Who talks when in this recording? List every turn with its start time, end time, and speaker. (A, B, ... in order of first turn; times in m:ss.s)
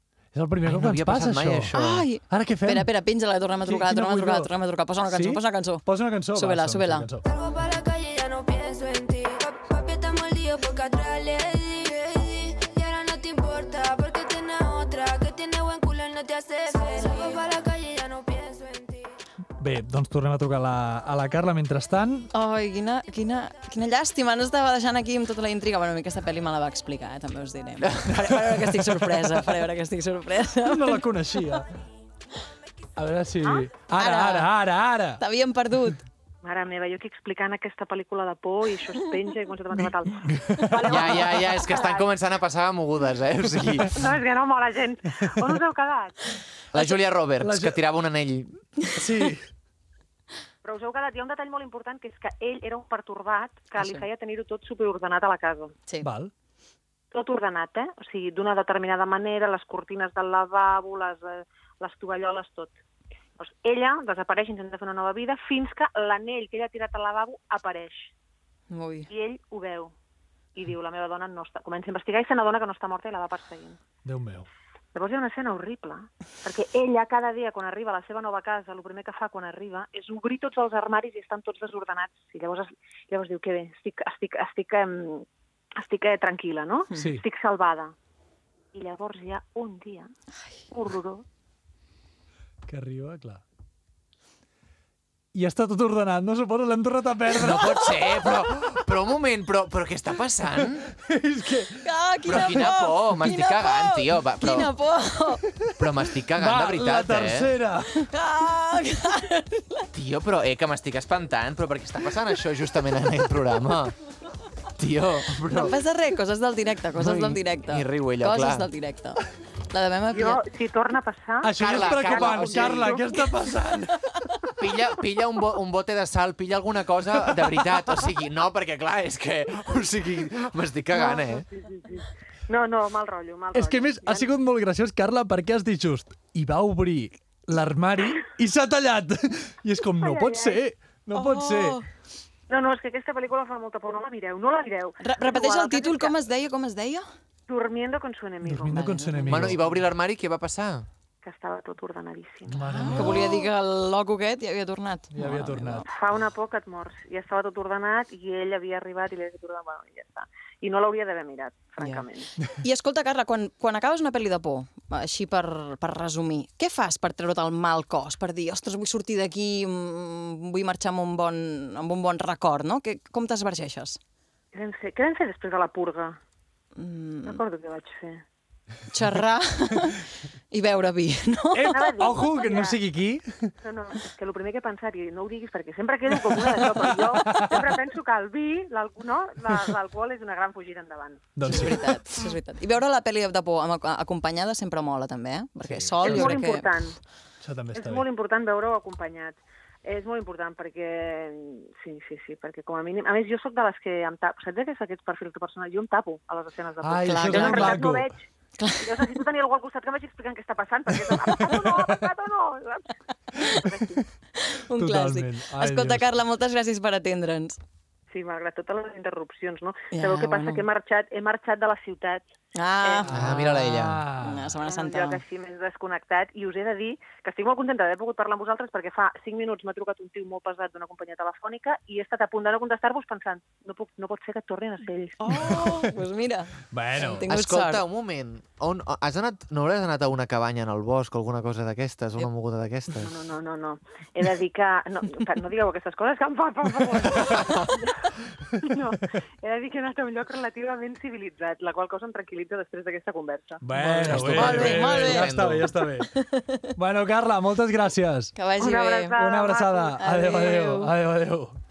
0:00.3-0:01.7 A
0:00.7-0:02.1 B
0:01.7-0:07.1 C
0:02.3-0:02.9 A
0:03.7-0:04.5 A
0:05.1-0:07.2 A
0:07.2-0:19.2 D
0:19.6-0:22.3 A
0:22.3-0:31.1 C
0:28.1-0:29.5 A
0:30.6-0:31.7 A
0:33.0-0:35.2 A
0:34.0-0:34.5 C
0:35.2-0:36.1 C
0:36.4-0:42.1 E
0:39.8-0:41.0 A
0:40.8-0:44.0 B
0:43.9-0:46.2 E
0:46.7-0:48.6 B
0:47.4-0:47.8 A
0:49.0-0:49.5 A
0:50.6-0:55.8 E
0:53.8-0:54.0 C
0:56.0-0:56.3 A
0:57.1-1:02.8 E
1:03.4-1:08.1 E
1:08.7-1:09.1 C
1:09.1-1:09.9 E
1:10.5-1:13.8 E
1:14.0-1:14.5 A
1:14.9-1:27.9 E
1:27.0-1:27.2 A
1:28.7-1:30.1 E
1:30.7-1:31.2 E
1:32.7-1:33.4 A
1:35.3-1:38.4 A
1:37.4-1:40.9 B
1:40.9-1:42.7 A
1:41.8-1:45.4 C
1:42.3-1:44.7 B
1:45.8-1:47.5 B
1:46.4-1:48.1 A
1:48.0-1:49.9 C
1:49.9-1:54.0 B
1:54.8-1:55.7 B
1:55.5-2:00.4 C
1:57.0-1:58.7 B
2:00.1-2:03.4 E
2:01.4-2:04.1 A
2:01.6-2:03.0 B
2:04.6-2:11.5 B
2:10.9-2:14.3 E
2:13.5-2:21.8 A
2:20.0-2:20.6 E
2:21.1-2:21.9 C
2:22.5-2:26.1 E
2:25.0-2:27.1 C
2:27.5-2:29.0 E
2:28.4-2:29.8 A
2:28.7-2:29.6 C
2:29.3-2:30.9 B
2:31.2-2:33.3 E
2:32.5-2:33.4 A
2:32.6-2:35.9 C
2:35.1-2:35.8 A
2:35.9-2:42.3 E
2:41.8-2:54.0 C
2:54.5-2:56.2 E
2:56.8-2:57.4 C
2:57.2-2:58.2 E
2:58.9-3:01.7 C
3:01.5-3:03.5 A
3:01.7-3:02.8 E
3:03.6-3:11.8 E
3:06.3-3:07.6 A
3:11.4-3:12.2 A
3:11.4-3:16.7 C
3:15.6-3:16.4 A
3:16.0-3:17.0 E
3:17.4-3:18.0 A
3:17.7-3:28.2 E
3:26.8-3:28.1 A
3:27.0-3:27.8 C
3:28.6-3:29.2 C
3:28.8-3:34.0 E
3:31.6-3:32.0 A
3:34.4-3:37.6 C
3:34.8-3:36.1 A
3:38.1-3:42.3 E
3:39.9-3:40.6 C
3:42.6-3:43.4 C
3:42.8-3:43.1 E
3:43.1-3:44.6 A
3:43.1-3:44.0 B
3:44.2-3:45.2 C
3:44.6-3:55.6 E
3:55.2-3:57.8 C
3:55.5-3:55.9 A
3:56.7-3:57.2 A
3:57.3-4:03.1 B
4:03.0-4:13.8 E
4:07.3-4:07.7 B
4:13.6-4:16.1 A
4:13.8-4:15.7 B
4:14.1-4:16.7 C
4:16.8-4:18.3 A
4:18.4-4:19.2 C
4:18.6-4:20.3 E
4:19.1-4:21.6 A
4:20.0-4:20.9 C